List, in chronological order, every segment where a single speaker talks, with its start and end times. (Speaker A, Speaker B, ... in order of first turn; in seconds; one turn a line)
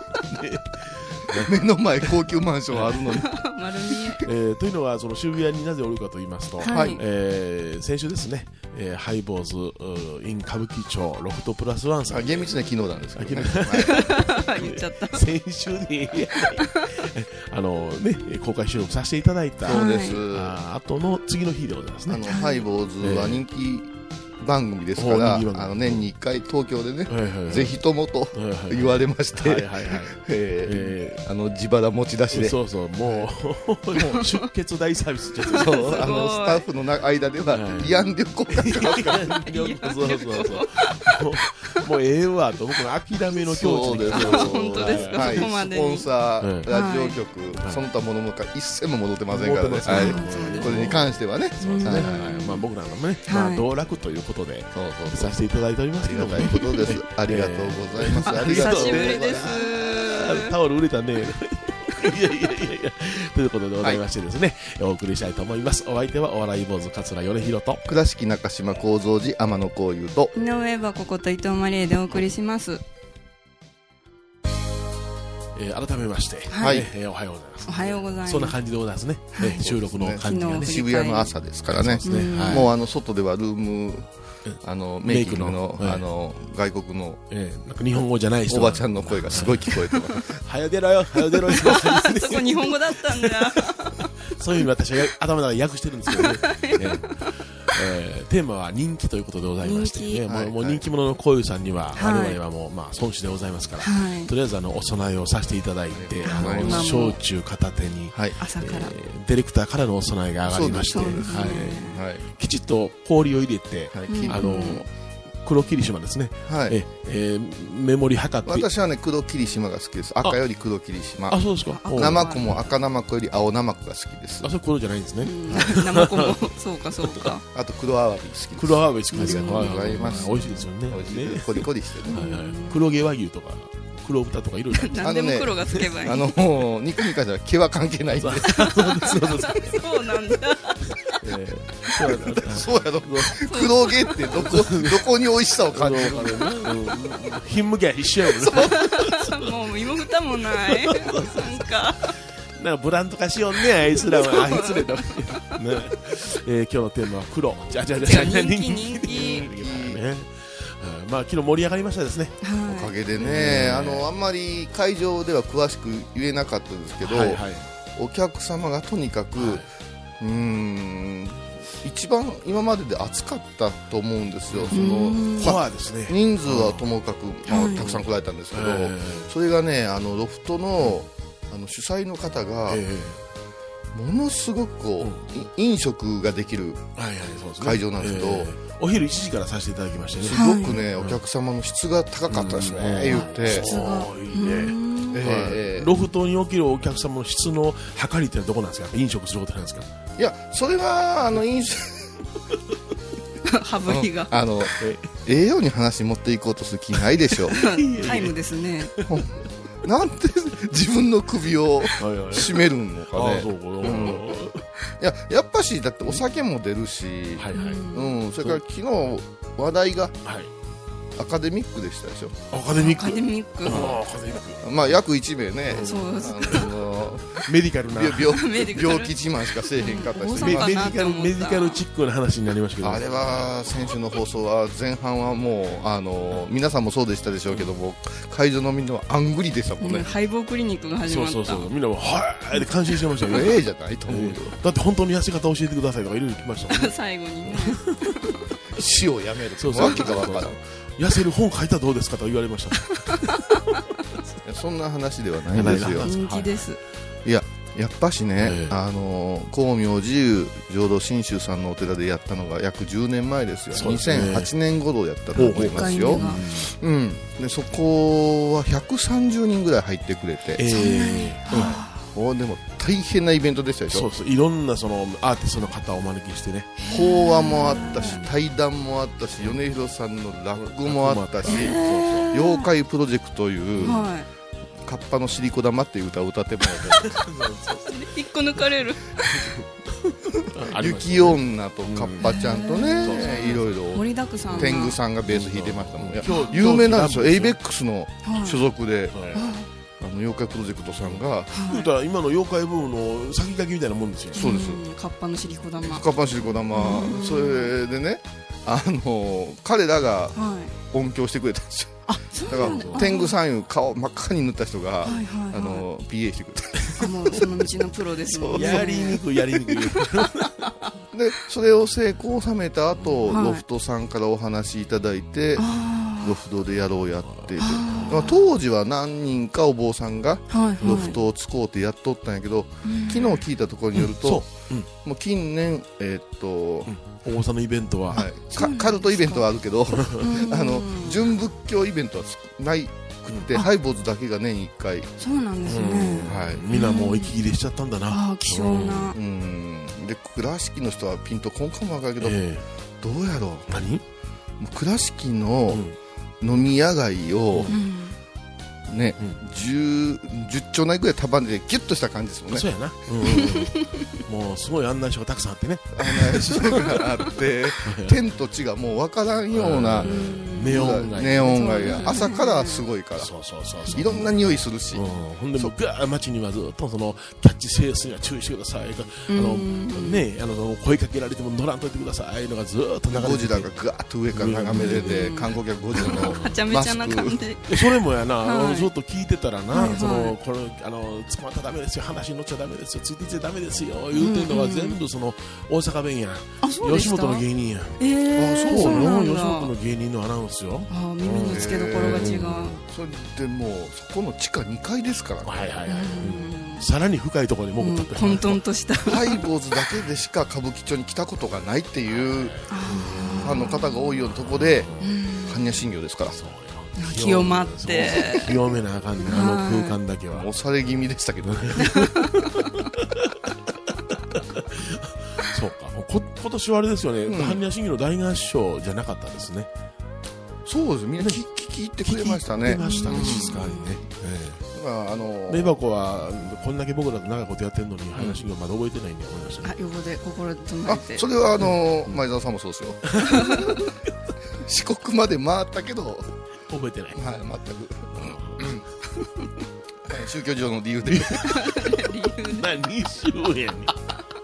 Speaker A: 0.3-1.6
Speaker B: 1.3-3.3
Speaker A: 2.7-3.1
Speaker C: 3.2-4.2
Speaker A: 4.2-12.5
Speaker C: 6.6-7.0
Speaker B: 6.7-7.0
Speaker B: 12.1-14.1
Speaker A: 13.2-22.3
Speaker C: 13.9-15.2
Speaker B: 19.6-20.6
Speaker C: 19.7-20.2
Speaker B: 22.1-33.3
Speaker C: 22.3-22.7
Speaker A: 23.0-23.4
Speaker A: 25.0-26.1
Speaker A: 27.1-27.8
Speaker A: 28.3-31.2
Speaker A: 32.3-36.3
Speaker B: 33.9-34.3
Speaker B: 35.5-39.4
Speaker C: 35.5-36.7
Speaker A: 37.5-45.5
Speaker C: 39.5-40.8
Speaker B: 43.4-52.3
Speaker C: 44.1-46.1
Speaker A: 46.4-46.7
Speaker C: 46.7-47.2
Speaker A: 49.3-67.8
Speaker C: 49.9-50.9
Speaker C: 51.6-52.6
Speaker C: 53.3-53.6
Speaker B: 54.7-55.4
Speaker B: 56.0-59.5
Speaker C: 56.4-56.7
Speaker C: 58.4-60.5
Speaker B: 67.9-70.3
Speaker C: 70.3-72.8
Speaker A: 75.5-80.8
Speaker C: 76.5-76.8
Speaker B: 76.6-76.9
Speaker C: 77.7-78.6
Speaker C: 79.3-79.7
Speaker B: 79.5-84.1
Speaker C: 80.2-81.3
Speaker A: 81.7-82.7
Speaker C: 82.1-82.7
Speaker A: 84.5-86.0
Speaker B: 84.6-87.2
Speaker A: 87.3-89.8
Speaker B: 88.5-90.4
Speaker A: 90.4-114.9
Speaker C: 91.5-94.0
Speaker C: 96.2-97.0
Speaker C: 99.6-100.2
Speaker B: 100.3-100.8
Speaker C: 102.0-102.4
Speaker C: 103.8-104.3
Speaker B: 105.9-107.0
Speaker C: 106.2-107.2
Speaker C: 108.4-108.9
Speaker B: 110.5-112.3
Speaker C: 110.9-112.0
Speaker B: 113.9-114.4
Speaker C: 114.1-114.8
Speaker A: 115.4-118.7
Speaker B: 116.5-116.8
Speaker B: 118.5-124.5
Speaker A: 121.3-122.6
Speaker C: 121.7-122.6
Speaker A: 124.4-126.3
Speaker C: 125.2-127.4
Speaker B: 125.5-125.8
Speaker A: 127.0-127.3
Speaker B: 127.5-132.3
Speaker A: 128.6-135.1
Speaker C: 129.1-130.6
Speaker C: 132.1-132.8
Speaker C: 134.7-136.3
Speaker B: 134.9-138.8
Speaker A: 138.2-139.8
Speaker C: 139.5-141.2
Speaker A: 141.2-143.4
Speaker B: 142.3-146.5
Speaker C: 143.4-144.3
Speaker A: 144.4-145.0
Speaker A: 145.7-149.5
Speaker C: 148.5-152.1
Speaker A: 150.5-151.8
Speaker A: 152.5-162.4
Speaker C: 154.2-154.9
Speaker C: 158.0-159.5
Speaker B: 159.1-160.0
Speaker C: 162.4-162.9
Speaker B: 162.7-167.4
Speaker A: 163.2-164.1
Speaker A: 167.0-167.7
Speaker B: 168.0-169.7
Speaker A: 169.4-169.7
Speaker B: 170.2-182.8
Speaker A: 174.5-176.8
Speaker C: 174.7-175.5
Speaker C: 177.5-177.8
Speaker A: 177.6-179.3
Speaker A: 182.7-183.2
Speaker B: 183.9-186.9
Speaker A: 187.0-191.2
Speaker B: 187.6-188.5
Speaker B: 190.2-193.7
Speaker C: 190.3-190.8
Speaker A: 192.3-199.9
Speaker C: 193.5-195.2
Speaker B: 195.1-195.9
Speaker B: 200.2-202.1
Speaker C: 203.5-204.3
Speaker B: 203.8-207.6
Speaker A: 204.8-205.1
Speaker C: 207.5-208.9
Speaker A: 207.5-209.2
Speaker B: 209.1-214.5
Speaker A: 212.0-214.7
Speaker B: 215.0-220.2
Speaker A: 217.4-217.9
Speaker C: 217.5-218.2
Speaker A: 220.2-220.5
Speaker B: 221.2-222.4
Speaker A: 222.5-224.9
Speaker C: 222.8-223.9
Speaker B: 223.7-224.0
Speaker B: 224.6-230.8
Speaker A: 225.7-226.7
Speaker C: 225.8-226.7
Speaker A: 227.4-228.4
Speaker C: 228.3-229.1
Speaker C: 229.7-231.8
Speaker A: 230.4-233.9
Speaker B: 232.8-240.1
Speaker C: 239.8-241.7
Speaker A: 241.1-243.5
Speaker B: 243.3-244.6
Speaker A: 244.1-246.9
Speaker C: 246.7-248.3
Speaker A: 247.5-248.0
Speaker B: 248.8-250.6
Speaker A: 249.6-253.6
Speaker B: 254.4-256.1
Speaker A: 255.5-256.7
Speaker C: 256.0-256.8
Speaker B: 257.2-270.7
Speaker A: 258.4-258.8
Speaker A: 263.7-264.5
Speaker A: 265.4-266.7
Speaker C: 265.4-266.4
Speaker A: 270.6-271.8
Speaker C: 270.7-272.1
Speaker B: 272.1-274.1
Speaker A: 273.9-276.9
Speaker C: 276.8-278.2
Speaker B: 276.9-284.1
Speaker A: 277.5-278.3
Speaker A: 280.6-282.3
Speaker C: 281.5-282.7
Speaker A: 283.8-284.1
Speaker C: 283.8-284.3
Speaker B: 284.9-287.2
Speaker A: 286.9-288.7
Speaker C: 287.9-289.1
Speaker A: 289.2-292.4
Speaker B: 290.6-299.5
Speaker C: 292.2-295.0
Speaker A: 293.0-293.6
Speaker A: 294.5-297.6
Speaker C: 296.3-296.6
Speaker C: 298.2-298.7
Speaker A: 299.1-299.5
Speaker C: 299.3-299.7
Speaker B: 300.0-301.5
Speaker A: 301.0-304.5
Speaker C: 301.5-301.9
Speaker B: 304.4-304.8
Speaker C: 304.4-306.1
Speaker B: 305.8-317.5
Speaker C: 306.7-307.7
Speaker C: 310.4-310.7
Speaker C: 312.1-313.4
Speaker A: 312.5-313.1
Speaker C: 315.0-315.9
Speaker C: 317.0-319.2
Speaker B: 318.2-319.1
Speaker A: 318.5-320.7
Speaker B: 321.1-336.9
Speaker A: 323.0-323.4
Speaker C: 323.3-323.6
Speaker C: 325.6-326.4
Speaker A: 327.3-328.3
Speaker C: 327.6-328.4
Speaker C: 330.5-331.2
Speaker A: 330.8-331.1
Speaker C: 332.8-333.4
Speaker A: 333.9-334.9
Speaker A: 336.9-338.3
Speaker B: 338.1-345.1
Speaker C: 338.5-339.4
Speaker A: 339.9-340.4
Speaker C: 340.2-341.2
Speaker A: 343.3-343.6
Speaker C: 345.2-347.3
Speaker A: 345.7-349.1
Speaker B: 346.2-346.6
Speaker C: 348.1-349.2
Speaker B: 349.1-352.4
Speaker A: 352.2-352.6
Speaker B: 353.0-353.7
Speaker A: 353.7-354.0
Speaker B: 354.6-355.8
Speaker A: 355.7-356.0
Speaker B: 356.4-357.7
Speaker A: 357.5-357.8
Speaker C: 357.7-358.2
Speaker B: 358.9-362.7
Speaker A: 362.5-367.0
Speaker B: 365.9-373.3
Speaker A: 367.9-368.2
Speaker A: 369.5-372.1
Speaker C: 370.1-372.9
Speaker A: 373.2-383.7
Speaker B: 373.9-375.8
Speaker C: 379.3-380.2
Speaker B: 383.1-387.4
Speaker A: 384.3-385.3
Speaker C: 384.8-387.7
Speaker A: 385.9-386.6
Speaker A: 387.7-402.9
Speaker C: 388.4-388.9
Speaker C: 389.7-390.4
Speaker C: 394.1-395.0
Speaker C: 396.6-397.4
Speaker C: 398.0-399.7
Speaker B: 398.4-399.1
Speaker C: 400.9-402.7
Speaker B: 401.4-405.8
Speaker A: 405.4-408.6
Speaker C: 405.9-406.9
Speaker C: 407.8-409.4
Speaker B: 409.0-412.6
Speaker A: 412.1-415.2
Speaker C: 412.7-413.9
Speaker B: 413.4-414.9
Speaker C: 415.0-415.7
Speaker B: 415.4-416.4
Speaker A: 416.3-420.5
Speaker C: 417.0-418.5
Speaker B: 418.0-418.4
Speaker C: 419.3-420.0
Speaker B: 420.3-421.9
Speaker A: 421.5-429.7
Speaker C: 422.0-422.2
Speaker B: 427.3-427.6
Speaker B: 430.7-433.7
Speaker A: 432.0-434.6
Speaker C: 432.7-433.9
Speaker B: 434.7-435.8
Speaker A: 435.5-439.8
Speaker B: 438.1-438.4
Speaker C: 439.6-441.3
Speaker B: 440.9-443.7
Speaker A: 441.6-442.2
Speaker A: 443.1-443.9
Speaker B: 444.6-446.3
Speaker A: 446.7-447.2
Speaker B: 447.1-448.9
Speaker A: 448.1-448.8
Speaker B: 450.1-451.6
Speaker A: 451.1-454.0
Speaker C: 451.7-452.7